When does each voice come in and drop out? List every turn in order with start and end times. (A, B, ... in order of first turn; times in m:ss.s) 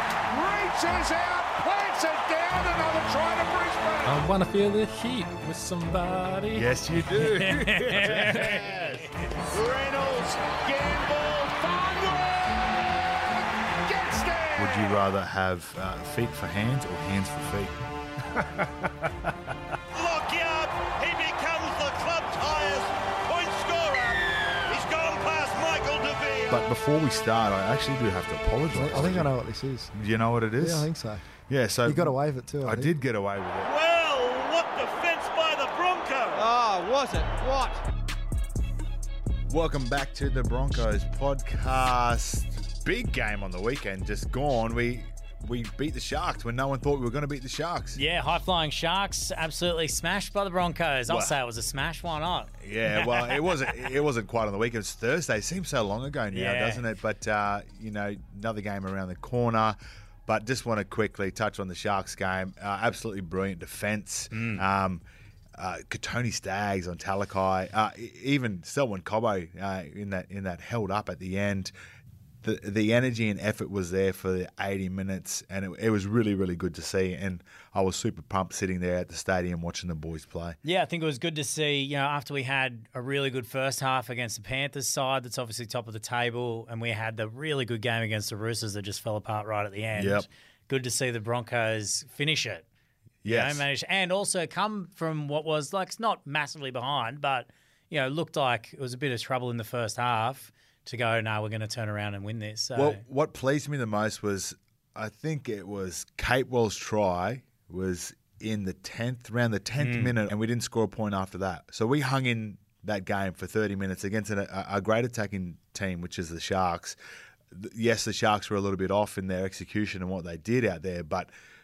0:00.3-0:04.3 A
0:04.1-0:06.6 B
0:06.5-0:09.0 C
0:07.2-0:08.9 D
0:08.5-0:14.9 A
0:14.6-0:19.3 C
0:19.9-0:26.6 E
0:26.5-0:29.3 C
0:28.8-0:29.9 F
0:29.9-0:30.9 C
0:30.6-0:31.2 F
0:31.5-0:33.7 C
0:31.9-0:32.9 F
0:33.7-0:37.8 E
0:39.5-0:48.0 C
0:47.9-0:53.8 D
0:51.1-0:51.3 C
0:52.6-1:05.0 C
0:56.3-0:56.8 D
1:04.3-1:04.6 D
1:05.6-1:11.7 C
1:12.4-1:20.6 C
1:20.6-1:32.6 D
1:30.0-1:30.3 C
1:33.2-1:33.6 C
1:33.2-1:43.0 D
1:42.8-1:57.0 C
1:49.8-1:50.1 D
1:57.5-2:01.3 C